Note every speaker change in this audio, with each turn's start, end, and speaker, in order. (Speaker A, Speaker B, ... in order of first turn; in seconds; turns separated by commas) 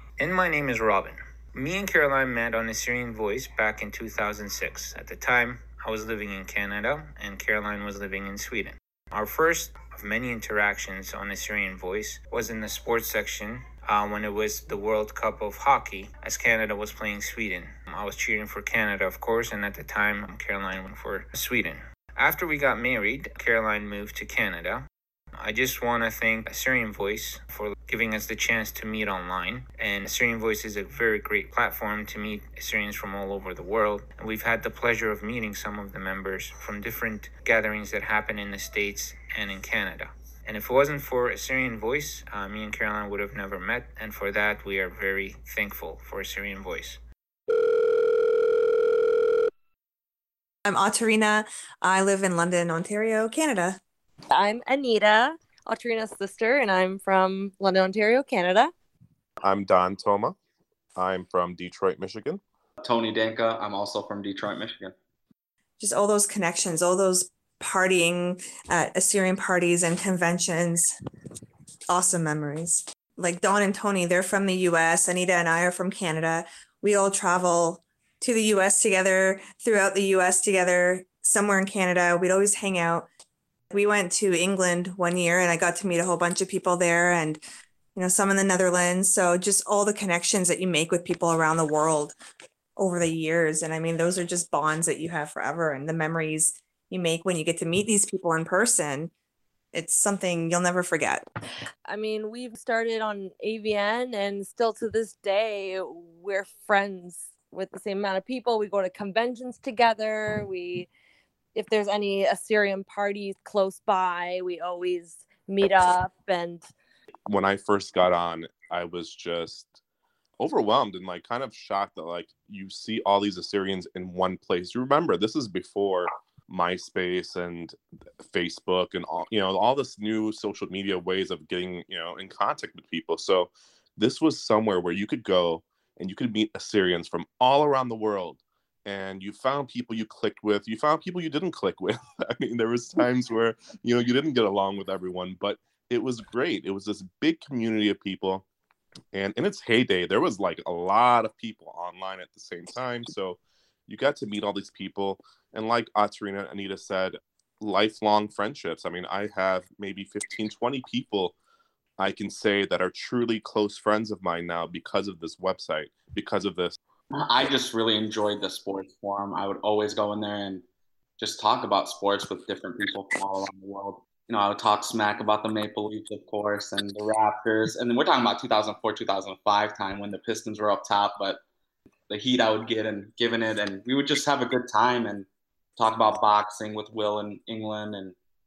Speaker A: 0.2-24.8, Speaker A: 25.4-47.0, Speaker B: 50.6-53.8, Speaker C: 54.3-58.7, Speaker D: 59.4-60.3, Speaker D: 61.0-62.4, Speaker E: 62.8-64.9, Speaker B: 65.8-70.9, Speaker B: 71.9-83.1, Speaker B: 83.7-87.4, Speaker B: 88.0-92.1, Speaker B: 92.8-99.1, Speaker B: 99.7-101.3, Speaker C: 101.9-110.9, Speaker C: 111.5-116.7, Speaker D: 117.3-119.8, Speaker D: 120.4-148.4, Speaker D: 149.1-161.3, Speaker D: 162.0-166.8, Speaker E: 167.1-170.6, Speaker E: 171.2-181.4, Speaker E: 182.1-188.2